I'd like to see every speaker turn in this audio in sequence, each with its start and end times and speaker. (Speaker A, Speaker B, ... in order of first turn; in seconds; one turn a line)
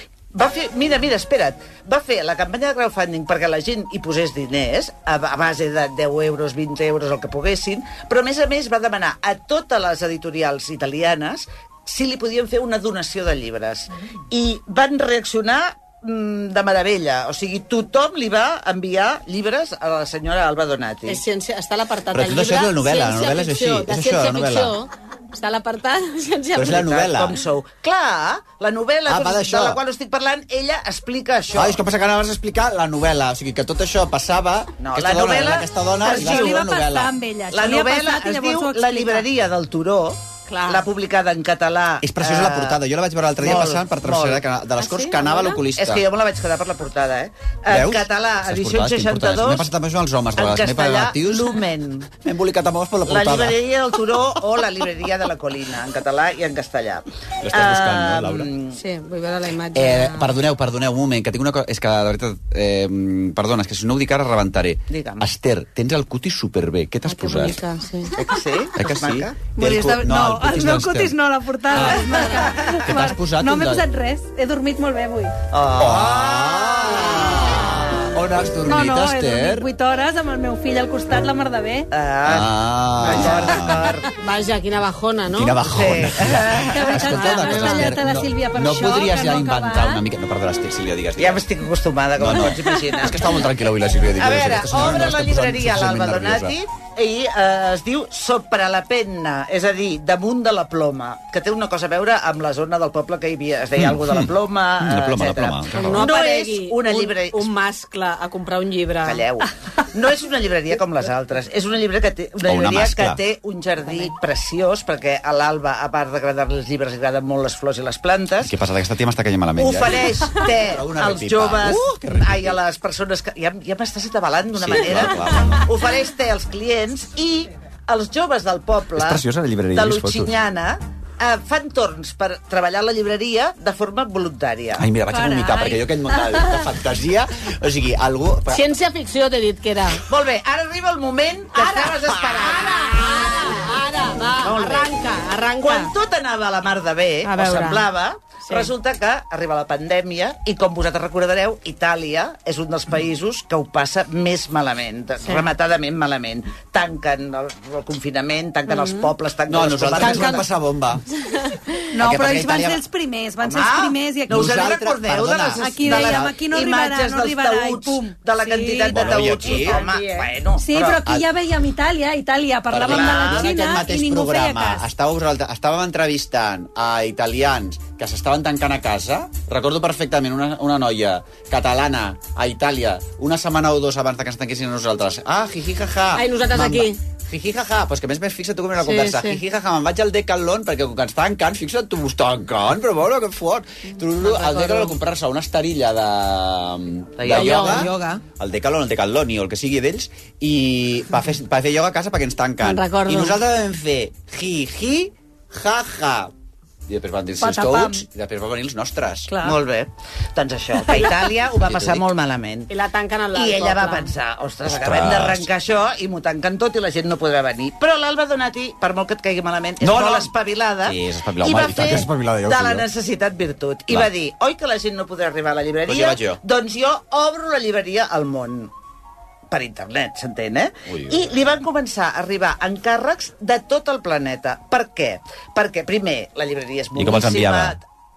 Speaker A: 0.3-21.2
Speaker B: 21.1-26.9
Speaker C: 22.1-24.8
Speaker C: 26.6-27.4
Speaker A: 26.7-31.8
Speaker C: 29.1-29.8
Speaker C: 31.6-37.1
Speaker A: 34.8-36.6
Speaker D: 36.1-39.3
Speaker A: 37.5-42.8
Speaker B: 40.5-40.8
Speaker C: 42.0-46.0
Speaker A: 43.4-44.4
Speaker B: 44.8-45.6
Speaker A: 45.7-49.7
Speaker C: 47.7-51.6
Speaker A: 50.4-52.1
Speaker C: 52.2-53.6
Speaker A: 53.1-58.8
Speaker C: 57.4-58.5
Speaker B: 58.7-60.3
Speaker C: 59.7-67.6
Speaker A: 64.9-65.2
Speaker B: 67.1-68.1
Speaker A: 68.2-69.5
Speaker C: 68.8-71.1
Speaker D: 69.5-75.3
Speaker C: 71.7-72.2
Speaker A: 71.8-72.8
Speaker B: 72.1-72.5
Speaker C: 72.8-73.8
Speaker A: 75.5-77.6
Speaker C: 75.8-79.7
Speaker B: 77.0-77.7
Speaker D: 78.6-81.9
Speaker A: 81.9-84.1
Speaker C: 82.2-84.0
Speaker B: 84.2-85.6
Speaker C: 85.3-91.4
Speaker A: 85.7-86.8
Speaker D: 86.7-90.0
Speaker B: 87.0-87.9
Speaker A: 91.2-93.3
Speaker C: 92.2-96.6
Speaker A: 94.2-107.5
Speaker C: 103.8-106.1
Speaker B: 105.7-109.2
Speaker A: 109.0-118.5
Speaker C: 112.4-113.2
Speaker C: 118.4-122.6
Speaker A: 119.6-129.2
Speaker C: 124.6-125.7
Speaker C: 129.0-130.3
Speaker A: 129.7-134.8
Speaker C: 134.8-138.6
Speaker D: 135.1-136.6
Speaker B: 138.5-140.0
Speaker A: 140.1-143.5
Speaker B: 141.5-145.9
Speaker A: 144.4-144.9
Speaker A: 145.6-160.5
Speaker B: 147.2-147.9
Speaker B: 158.7-159.1
Speaker C: 159.5-161.0
Speaker B: 160.0-160.4
Speaker D: 161.9-164.7
Speaker C: 162.0-162.8
Speaker A: 163.4-171.1
Speaker C: 164.3-166.3
Speaker D: 165.5-169.2
Speaker C: 168.9-169.9
Speaker B: 169.7-170.2
Speaker D: 170.6-174.8
Speaker C: 172.7-206.3
Speaker A: 172.7-173.5
Speaker B: 186.2-187.0
Speaker B: 188.8-189.4
Speaker B: 194.2-194.9
Speaker A: 197.2-198.2
Speaker B: 197.3-198.1
Speaker B: 202.6-203.4
Speaker C: 206.9-209.4
Speaker D: 207.4-207.9
Speaker A: 209.4-212.7
Speaker C: 211.6-212.1
Speaker B: 212.7-214.1
Speaker A: 213.3-228.7
Speaker C: 214.7-215.5
Speaker C: 219.8-220.3
Speaker C: 220.8-222.9
Speaker C: 225.9-226.4
Speaker A: 229.5-237.8
Speaker C: 230.9-231.3
Speaker C: 236.9-237.8